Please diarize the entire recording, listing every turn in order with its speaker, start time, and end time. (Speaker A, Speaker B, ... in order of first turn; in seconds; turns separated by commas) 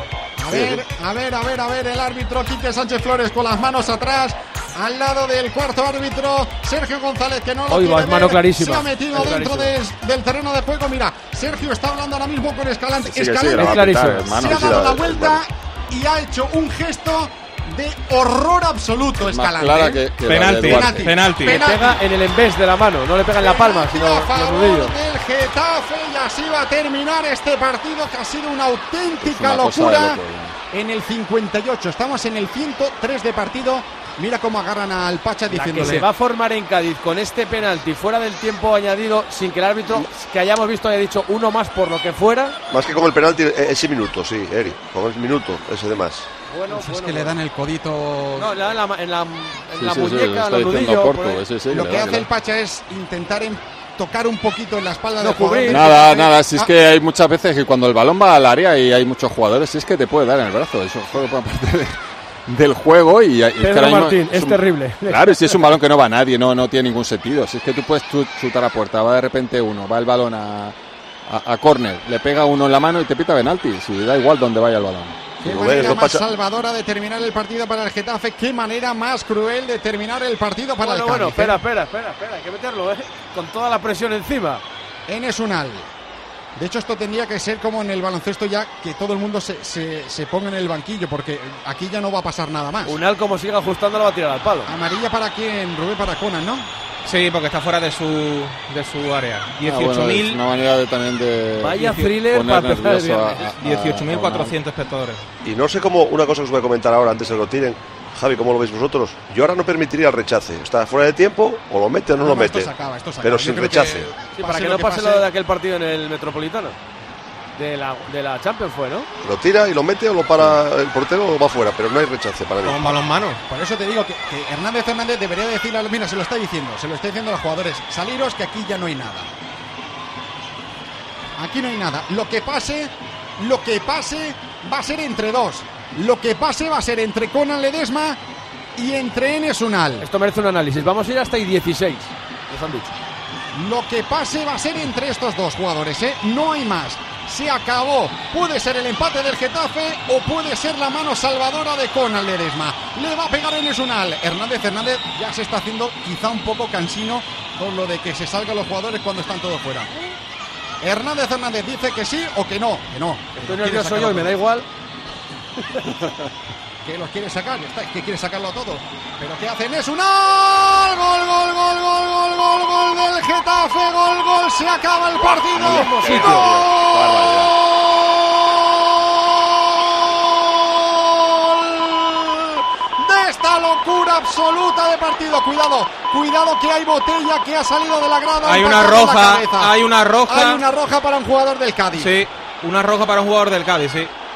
Speaker A: 0.4-22.0, Speaker B: 0.5-0.8, Speaker C: 7.7-9.7, Speaker D: 13.0-14.9, Speaker C: 13.6-14.3, Speaker B: 14.3-15.4, Speaker D: 19.2-21.1, Speaker E: 20.3-21.6, Speaker C: 21.6-24.9, Speaker A: 23.4-36.1, Speaker D: 29.2-30.6, Speaker C: 35.5-42.5, Speaker B: 42.7-46.3, Speaker C: 46.5-47.4, Speaker A: 46.7-48.5, Speaker C: 48.4-51.4, Speaker D: 49.8-52.3, Speaker A: 51.7-56.7, Speaker C: 55.2-55.8, Speaker D: 55.7-70.7, Speaker C: 63.6-65.7, Speaker D: 71.2-75.2, Speaker A: 75.4-81.6, Speaker B: 75.4-76.2, Speaker C: 80.8-84.6, Speaker A: 85.1-85.9, Speaker A: 86.5-93.0, Speaker C: 92.9-94.7, Speaker A: 94.6-96.7, Speaker E: 97.0-100.4, Speaker D: 99.6-104.6, Speaker C: 101.6-103.5, Speaker E: 101.8-102.1, Speaker E: 103.6-105.2, Speaker B: 105.4-114.2, Speaker A: 112.2-115.2, Speaker C: 114.3-116.8, Speaker C: 117.5-119.1, Speaker B: 119.2-123.0, Speaker E: 122.6-123.4, Speaker A: 123.5-129.3, Speaker A: 131.4-138.2, Speaker A: 138.8-140.1, Speaker C: 140.0-142.9, Speaker A: 143.5-159.9, Speaker A: 160.8-164.4, Speaker C: 163.4-164.7, Speaker A: 166.8-192.2, Speaker D: 175.5-177.5, Speaker C: 175.8-176.3, Speaker E: 188.4-190.6, Speaker E: 191.9-194.1